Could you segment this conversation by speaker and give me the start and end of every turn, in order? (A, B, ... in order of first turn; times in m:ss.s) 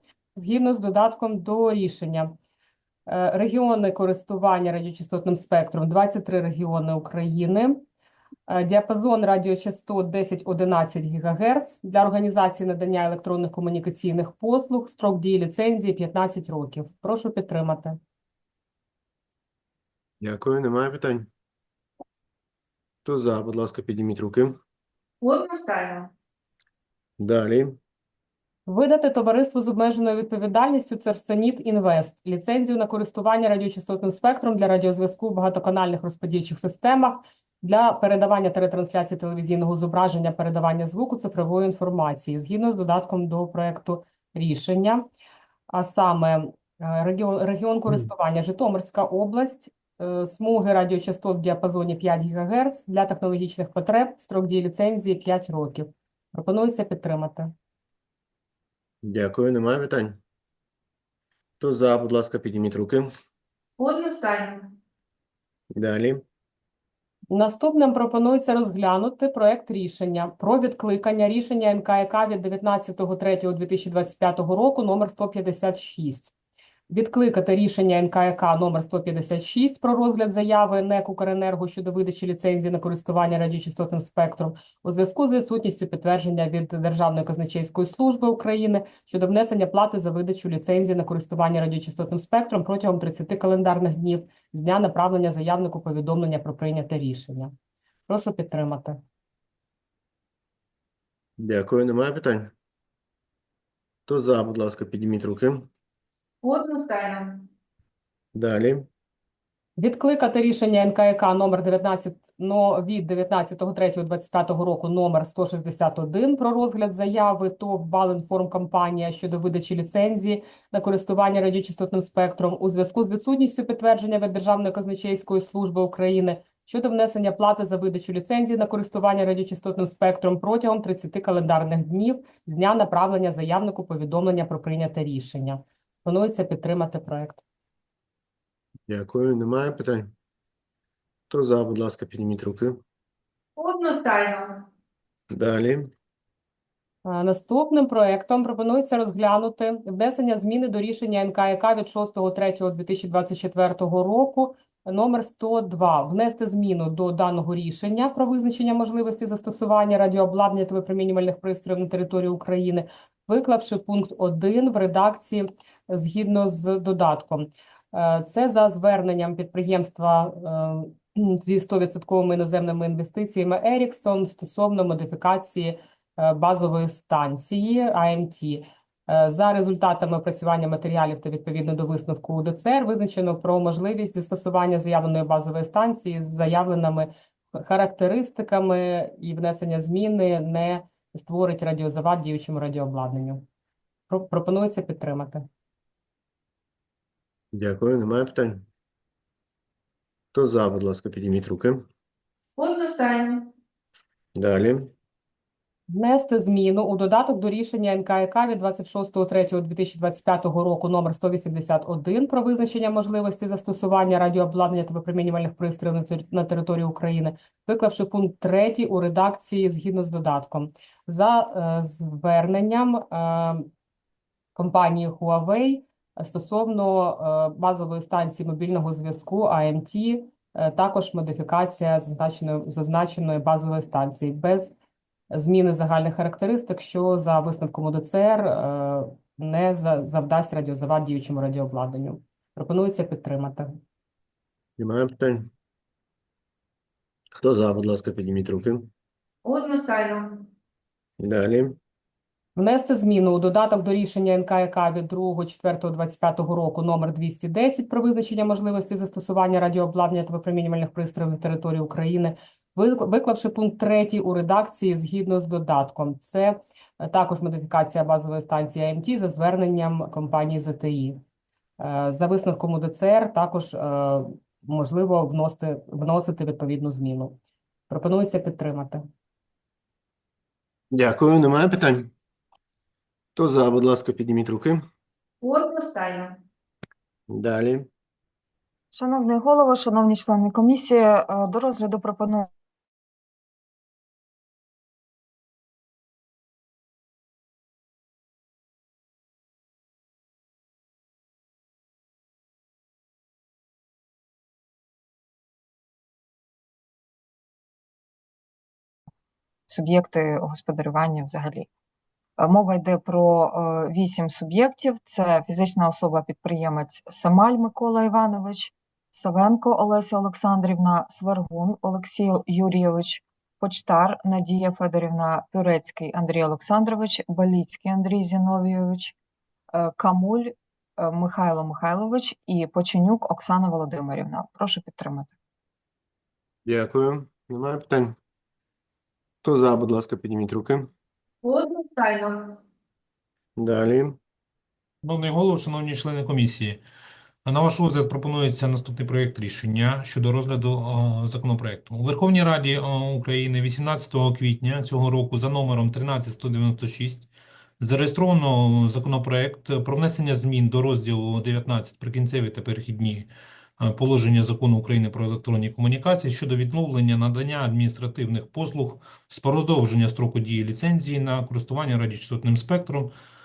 0:00.4-0:02.3 A
0:03.1-0:07.8 A
0:08.5-0:18.0 A
0:20.2-0:21.3 B
0:23.0-0:24.6 B
0:25.2-0:26.1 C
0:27.2-0:27.8 B
0:28.7-0:45.1 A
0:45.7-0:57.5 A
0:59.0-1:00.2 B
1:01.6-1:03.1 B
1:03.8-1:04.8 C
1:05.7-1:06.2 B
1:07.3-1:16.3 A
1:16.9-1:37.5 A
1:38.1-1:39.0 A
1:41.4-1:42.5 B
1:44.1-1:45.7 B
1:46.4-1:47.5 C
1:48.3-1:48.9 B
1:49.8-2:17.4 A
2:18.9-2:20.1 B
2:21.3-2:22.8 B
2:23.6-2:24.7 C
2:25.3-2:25.9 B
2:27.0-3:13.4 A
3:14.1-3:15.4 A
3:17.5-3:18.6 B
3:20.3-3:21.9 B
3:22.6-3:23.5 C
3:24.4-3:24.9 B
3:25.9-3:43.7 A
3:44.6-3:54.8 A
3:55.3-4:03.7 A
4:04.8-4:05.5 B
4:07.4-4:08.9 B
4:09.4-4:10.5 C
4:11.2-4:11.8 B
4:12.6-4:31.2 A
4:31.8-4:37.4 A
4:37.9-4:39.0 A
4:40.9-4:42.1 B
4:43.4-4:44.8 B
4:45.4-4:46.4 C
4:47.3-4:47.9 B
4:48.9-4:52.5 D
5:09.7-5:11.7 D
5:12.4-5:29.1 D
5:29.7-5:35.3 D
5:36.6-5:38.2 B
5:39.4-5:40.9 B
5:41.4-5:42.6 C
5:43.6-5:44.2 B
5:45.0-5:46.8 E
5:47.4-5:57.3 E
5:57.8-6:03.3 E
6:03.8-6:13.1 E